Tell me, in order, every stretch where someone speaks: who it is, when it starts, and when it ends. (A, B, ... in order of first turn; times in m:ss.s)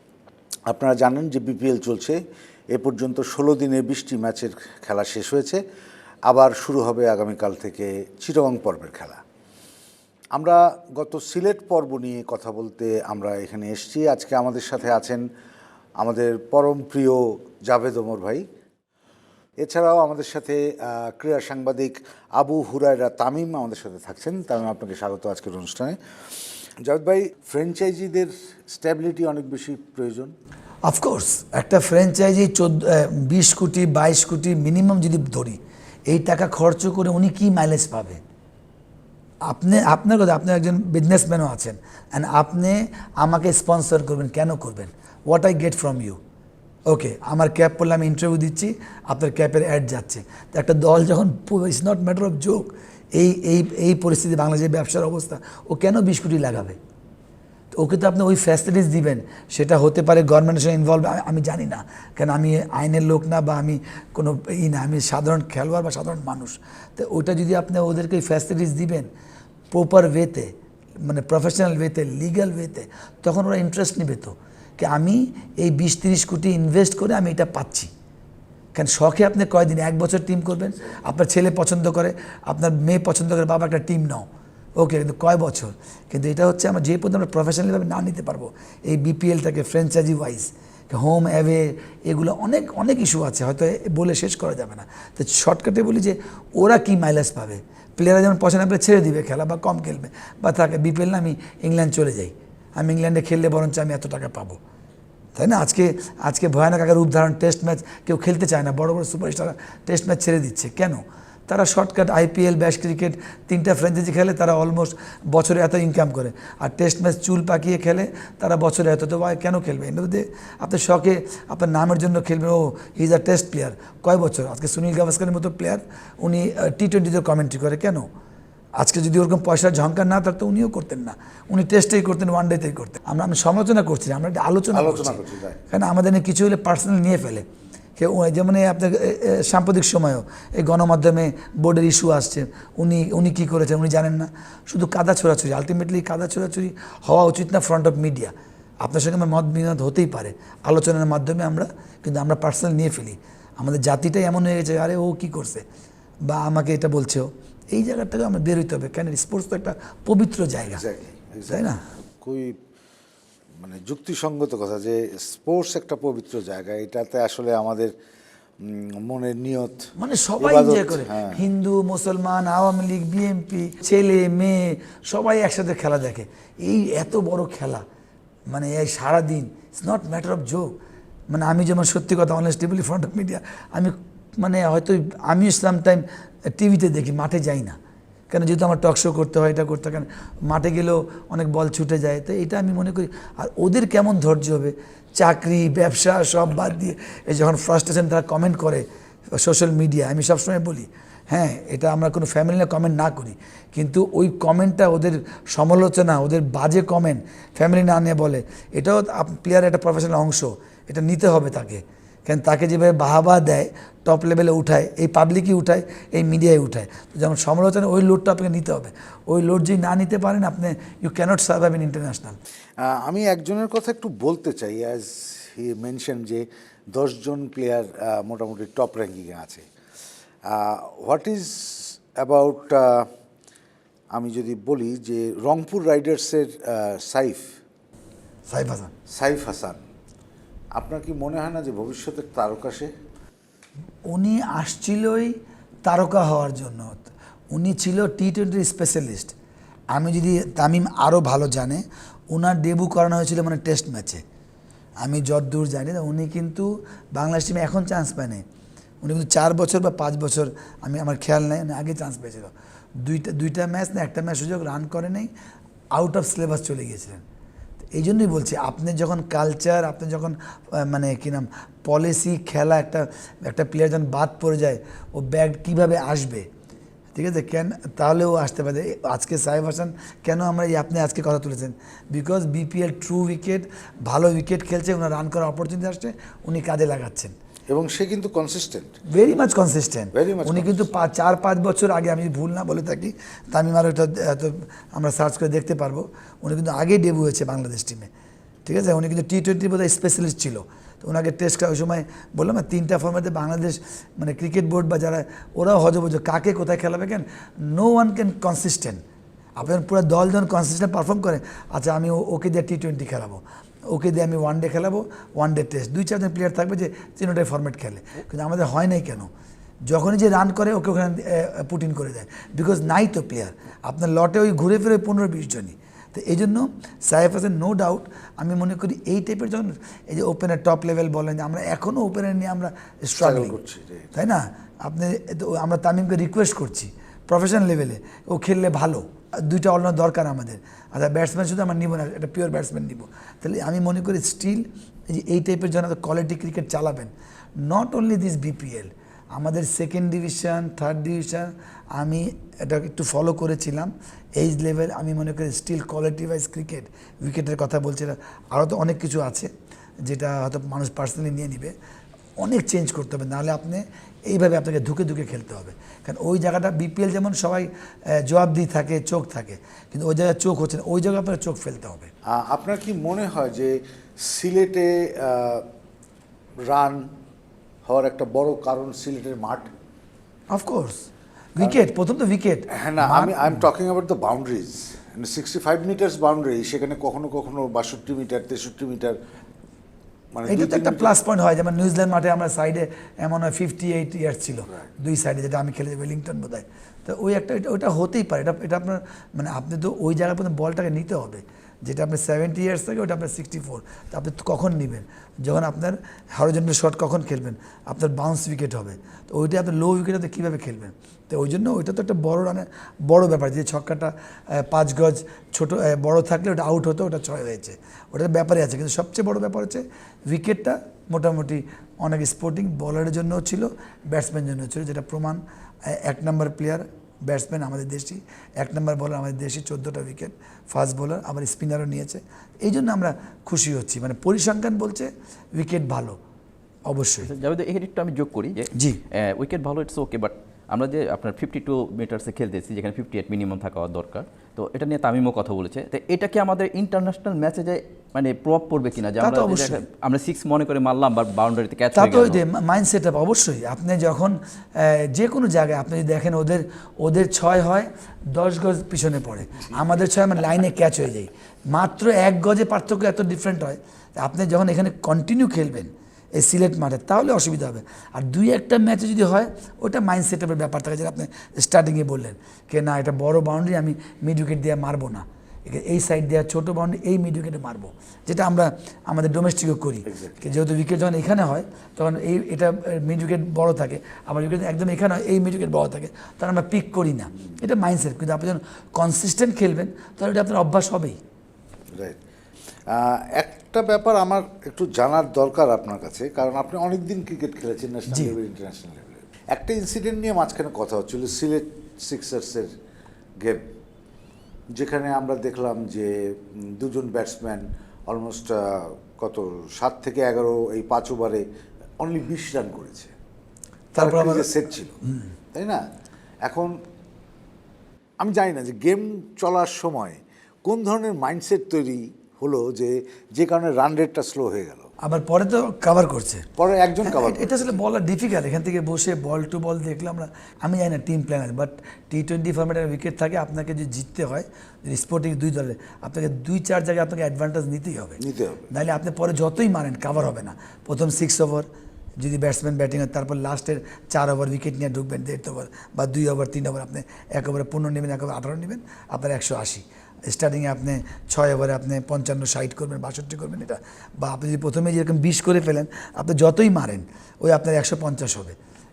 0:00.7-0:02.2 A
0:02.7-0:05.6 A
0:06.3-0:09.2 A
0:10.3-0:15.2 A
0:16.0-0:18.4 A
0:19.6-0:26.0 A
0:26.8-0:30.3 A
0:30.8-0:35.6 B
0:36.1-0:38.2 B
0:39.5-0:46.2 B
0:46.9-0:56.8 B
0:57.7-1:09.1 B
1:09.7-1:10.5 B
1:11.0-1:17.9 B
1:18.7-1:24.2 B
1:24.8-1:44.6 B
1:45.3-2:08.0 B
2:08.8-2:17.4 B
2:14.7-2:15.6 A
2:18.0-2:35.6 B
2:36.3-2:40.8 B
2:40.7-2:42.5 A
2:41.5-2:41.8 B
2:43.6-2:47.9 A
2:48.6-2:51.4 A
2:50.0-2:57.8 B
2:58.5-3:00.7 B
3:01.3-3:06.0 B
3:06.5-3:07.8 B
3:08.3-3:18.8 B
3:19.4-3:42.4 B
3:42.8-3:49.6 A
3:50.5-3:53.1 A
3:54.1-3:57.4 A
3:58.5-3:58.9 B
3:59.1-3:59.8 A
4:00.7-4:02.9 A
4:04.1-4:05.3 B
4:05.8-4:09.3 B
4:09.9-4:14.2 B
4:15.0-4:18.4 B
4:19.0-4:25.3 B
4:25.9-4:27.2 B
4:27.9-4:36.4 B
4:37.1-4:47.3 B
4:47.7-4:48.9 A
4:49.1-4:58.1 B
4:50.1-4:50.9 A
4:58.6-5:09.0 B
5:09.6-5:19.3 B
5:19.9-5:33.6 B
5:33.2-5:34.1 A
5:34.1-5:59.5 B
6:00.0-6:01.7 B
6:02.4-6:12.1 B
6:12.3-6:15.6 A
6:16.7-6:17.0 A
6:17.8-6:19.7 A
6:20.5-6:23.5 B
6:22.8-6:29.2 A
6:30.3-6:31.2 A
6:30.4-7:16.2 B
7:16.9-7:17.3 B
7:17.2-7:32.4 C
7:29.2-7:29.8 B
7:31.9-8:11.2 B
8:12.9-8:22.7 A
8:18.1-8:18.3 B
8:24.7-8:31.4 A
8:32.0-8:33.1 A
8:33.9-8:34.5 B
8:34.0-8:35.0 A
8:35.5-8:35.8 A
8:36.4-8:36.7 A
8:38.2-8:44.9 A
8:45.0-8:46.4 B
8:46.6-8:47.8 A
8:47.0-9:01.7 B
8:58.2-8:58.6 A
9:02.2-9:18.5 B